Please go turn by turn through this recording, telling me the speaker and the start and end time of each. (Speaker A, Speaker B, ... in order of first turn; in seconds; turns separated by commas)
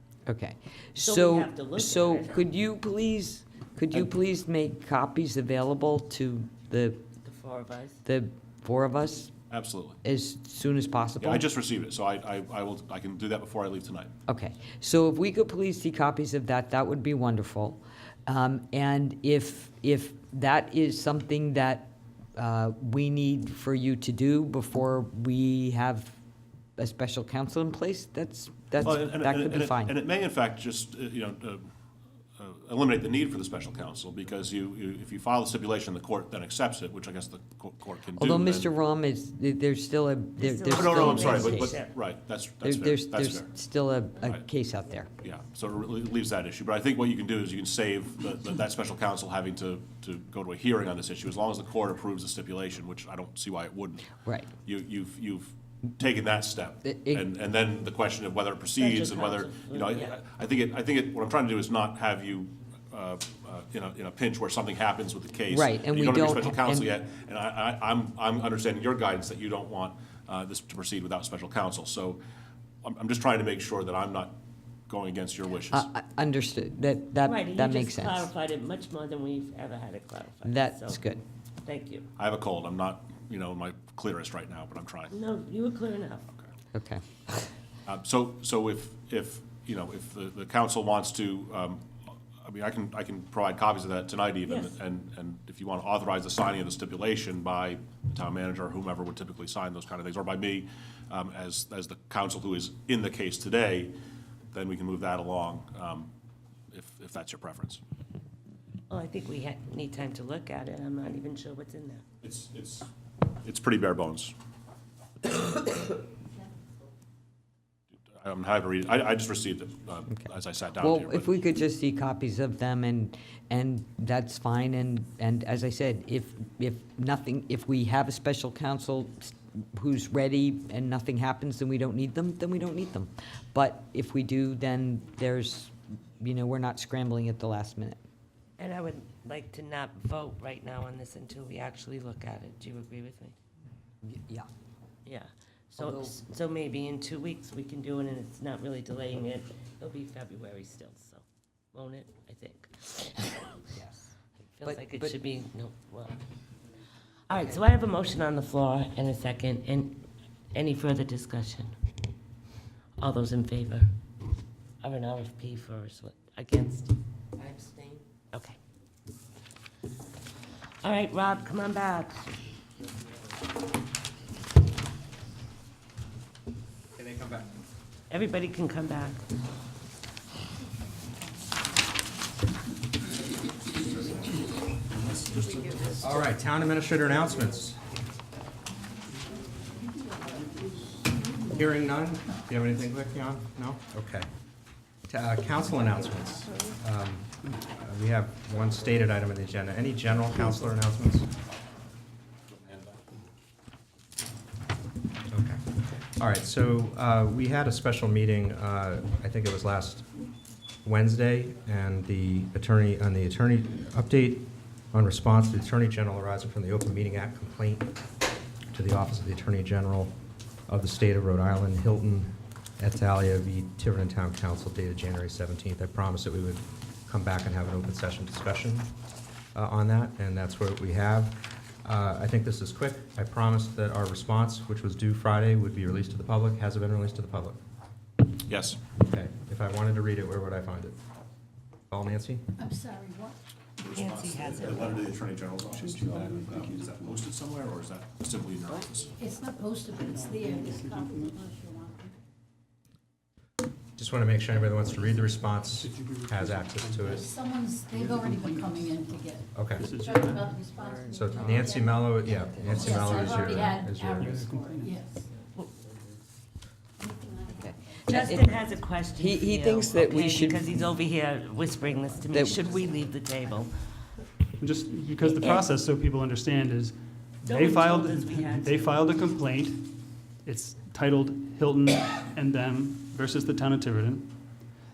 Speaker A: 0.3-7.0, Speaker B: 1.0-2.4, Speaker B: 7.2-8.0, Speaker A: 8.0-9.3, Speaker C: 9.5-10.0, Speaker A: 10.0-11.4, Speaker C: 11.2-14.1, Speaker A: 14.3-26.1, Speaker A: 26.8-29.9, Speaker C: 28.8-31.7, Speaker C: 32.4-38.7, Speaker A: 38.2-41.8, Speaker B: 40.4-41.9, Speaker C: 40.7-43.5, Speaker A: 42.6-45.1, Speaker C: 45.2-72.2, Speaker A: 56.8-57.2, Speaker B: 58.8-60.1, Speaker A: 65.5-66.9, Speaker C: 72.8-74.4, Speaker C: 74.9-75.9, Speaker A: 75.7-78.3, Speaker B: 77.2-81.0, Speaker A: 80.4-81.2, Speaker B: 81.6-82.1, Speaker C: 82.2-85.2, Speaker B: 85.1-86.3, Speaker A: 86.7-87.5, Speaker C: 87.9-91.9, Speaker C: 92.4-103.9, Speaker B: 94.5-94.7, Speaker C: 104.5-106.1, Speaker C: 106.7-107.8, Speaker B: 108.9-112.0, Speaker C: 112.2-112.9, Speaker C: 113.4-114.3, Speaker C: 118.1-121.4, Speaker A: 120.1-138.0, Speaker B: 138.6-143.3, Speaker A: 144.0-144.5, Speaker B: 145.1-153.6, Speaker A: 145.8-146.1, Speaker B: 154.5-156.2, Speaker A: 154.6-155.1, Speaker B: 157.3-161.7, Speaker B: 163.0-163.9, Speaker B: 164.8-168.6, Speaker B: 170.8-172.2, Speaker B: 178.1-179.2, Speaker D: 185.6-187.8, Speaker D: 191.5-194.3, Speaker D: 195.1-201.3, Speaker E: 200.4-200.7, Speaker C: 202.5-203.0, Speaker D: 205.3-205.6, Speaker D: 206.2-210.1, Speaker D: 210.8-217.9, Speaker D: 218.7-220.1, Speaker D: 220.7-228.9, Speaker D: 229.5-237.6, Speaker C: 238.5-238.8, Speaker D: 239.0-241.0, Speaker D: 241.9-242.4, Speaker F: 242.6-243.4, Speaker C: 243.8-249.1, Speaker B: 243.9-245.1, Speaker E: 245.7-247.2, Speaker F: 249.1-252.1, Speaker E: 250.0-251.4, Speaker D: 253.9-257.3, Speaker E: 255.7-260.7, Speaker F: 257.1-265.2, Speaker D: 259.5-259.9, Speaker A: 260.8-263.6, Speaker D: 261.1-264.5, Speaker E: 263.7-265.0, Speaker F: 267.0-268.8, Speaker A: 267.6-270.7, Speaker B: 268.1-273.8, Speaker A: 272.2-272.8, Speaker E: 274.6-284.4, Speaker B: 275.2-275.7, Speaker B: 277.4-279.1